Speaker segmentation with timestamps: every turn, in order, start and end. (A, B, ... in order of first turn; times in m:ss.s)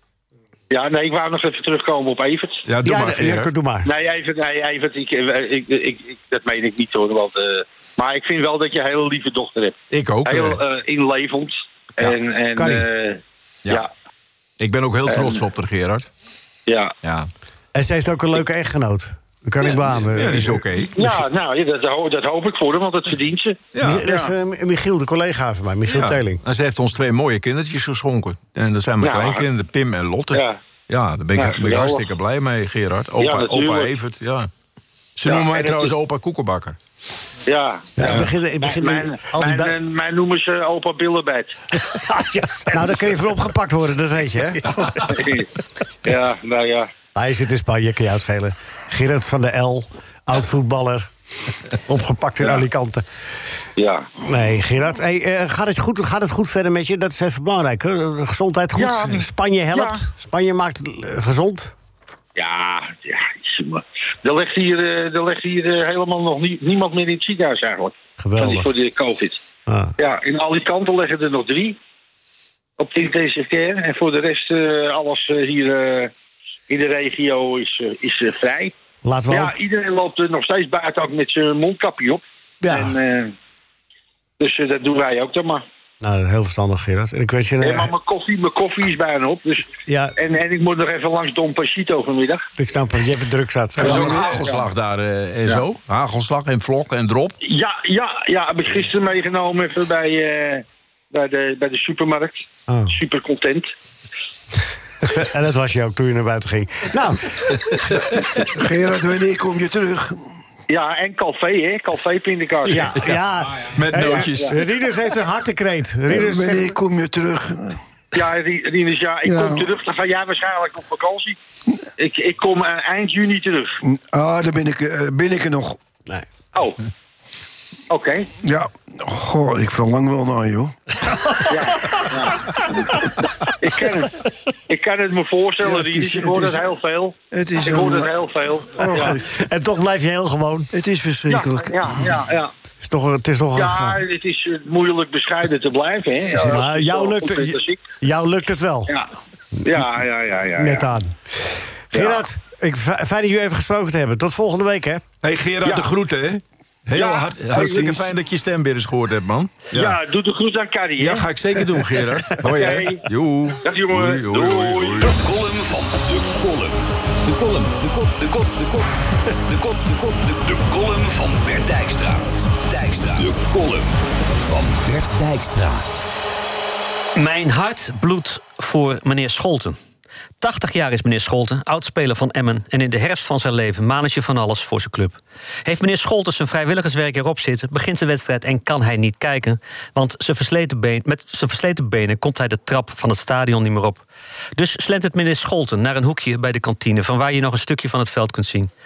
0:00.7-0:02.6 A
0:02.7-0:03.5 B
0:02.8-0:03.9 C
0:03.8-0:13.9 A
0:09.9-0:10.6 B
0:12.6-0:12.9 C
0:14.6-0:16.1 B
0:15.1-0:15.4 A
0:16.7-0:16.9 A
0:17.0-0:17.3 B
0:17.7-0:20.7 C
0:20.1-0:21.2 B
0:21.0-0:24.3 A
0:23.7-0:24.0 B
0:23.8-0:26.4 C
0:25.9-0:34.5 B
0:29.0-0:29.4 A
0:30.3-0:30.6 A
0:31.4-0:32.1 A
0:33.2-0:33.9 A
0:35.2-0:36.8 B
0:35.2-0:35.9 A
0:37.5-0:42.7 A
0:38.0-0:39.8 C
0:38.0-0:38.3 B
0:42.7-0:44.7 C
0:44.8-0:45.5 A
0:46.0-0:46.9 A
0:47.2-0:51.1 C
0:51.7-0:53.0 C
0:53.8-0:54.1 A
0:54.2-1:01.8 C
0:58.8-1:00.0 A
1:02.4-1:09.4 A
1:08.2-1:08.7 C
1:09.7-1:10.0 C
1:10.0-1:11.8 A
1:12.8-1:16.1 A
1:16.7-1:18.7 A
1:19.0-1:19.5 C
1:19.3-1:23.4 A
1:22.6-1:23.0 C
1:24.4-1:25.6 A
1:26.0-1:27.9 C
1:27.6-1:32.5 A
1:29.9-1:30.2 C
1:32.6-1:34.4 C
1:33.8-1:37.4 B
1:33.8-1:34.7 A
1:37.4-1:43.7 A
1:42.7-1:43.0 C
1:45.0-1:47.9 C
1:48.5-1:50.3 D
1:50.7-1:53.1 A
1:52.7-1:56.8 C
1:53.1-1:54.6 B
1:54.2-1:54.6 A
1:56.1-1:57.8 D
1:58.1-2:01.4 A
1:59.2-1:59.7 D
2:02.0-2:03.8 A
2:03.8-2:05.8 D
2:07.9-2:08.3 A
2:08.4-2:10.8 D
2:11.5-2:12.6 A
2:13.6-2:14.2 A
2:14.7-2:19.2 A
2:15.6-2:16.7 D
2:17.3-2:19.2 D
2:18.9-2:20.7 C
2:20.7-2:22.2 D
2:21.3-2:22.5 A
2:22.8-2:24.0 C
2:23.6-2:27.8 A
2:26.3-2:29.0 C
2:28.9-2:29.1 A
2:29.6-2:29.9 C
2:29.6-2:30.9 A
2:30.6-2:35.0 C
2:31.9-2:32.2 A
2:35.2-2:40.0 B
2:35.6-2:35.9 A
2:36.9-2:37.8 A
2:37.5-2:38.1 D
2:39.7-2:41.3 A
2:41.0-2:45.2 B
2:42.3-2:43.0 A
2:43.6-2:45.2 A
2:45.0-2:48.9 E
2:49.5-2:55.9 E
2:57.2-2:59.8 F
3:00.4-3:14.0 F
3:14.6-3:18.7 F